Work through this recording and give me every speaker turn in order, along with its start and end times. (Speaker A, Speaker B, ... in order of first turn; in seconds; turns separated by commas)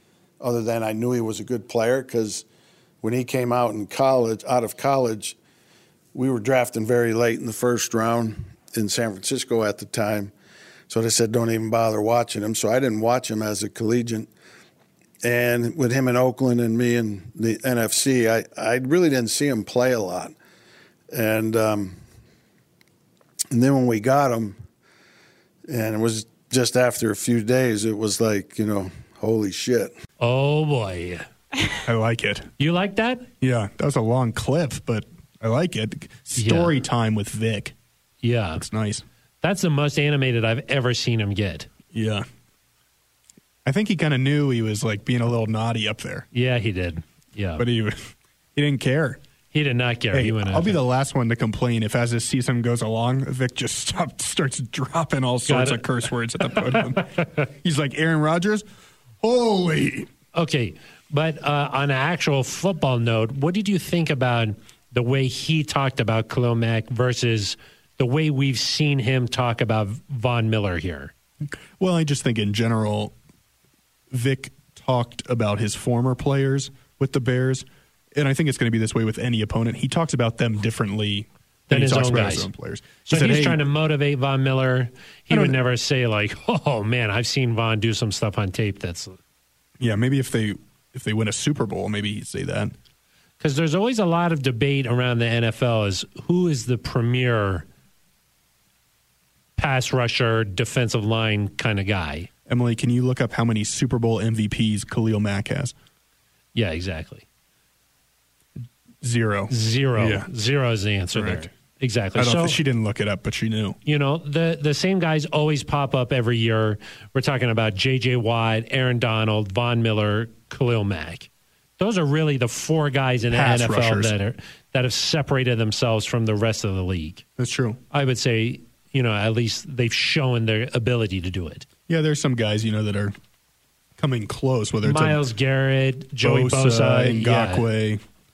Speaker A: 0.4-2.5, Speaker A: 3.0-5.4, Speaker A: 6.1-10.3, Speaker A: 10.9-14.3, Speaker A: 15.2-20.4, Speaker A: 21.1-22.0, Speaker A: 23.5-24.6, Speaker A: 25.7-29.9, Speaker B: 30.2-31.3, Speaker C: 31.9-32.5, Speaker B: 32.6-33.3, Speaker C: 33.4-37.8, Speaker B: 36.4-36.7, Speaker B: 38.2-38.6, Speaker C: 38.6-39.0, Speaker B: 39.4-41.7, Speaker C: 41.9-42.3, Speaker C: 43.6-46.3, Speaker B: 46.3-47.6, Speaker C: 47.6-49.2, Speaker B: 49.5-50.8, Speaker C: 50.1-58.6, Speaker B: 55.5-55.8, Speaker B: 56.5-57.4, Speaker C: 59.2-60.1, Speaker B: 60.3-71.1, Speaker C: 71.4-73.1, Speaker C: 74.1-83.6, Speaker B: 81.7-82.5, Speaker B: 83.1-89.2, Speaker C: 85.3-85.6, Speaker C: 89.8-92.8, Speaker B: 93.4-97.7, Speaker B: 99.6-102.3, Speaker C: 102.5-105.7, Speaker B: 106.5-107.2, Speaker C: 109.0-110.3, Speaker B: 109.5-112.6, Speaker C: 111.2-111.5, Speaker C: 112.2-113.8, Speaker B: 113.8-127.2, Speaker C: 123.3-124.1, Speaker C: 127.4-127.8, Speaker B: 127.9-131.7, Speaker C: 131.9-133.2, Speaker C: 134.0-135.2, Speaker B: 134.8-137.7, Speaker C: 136.2-138.0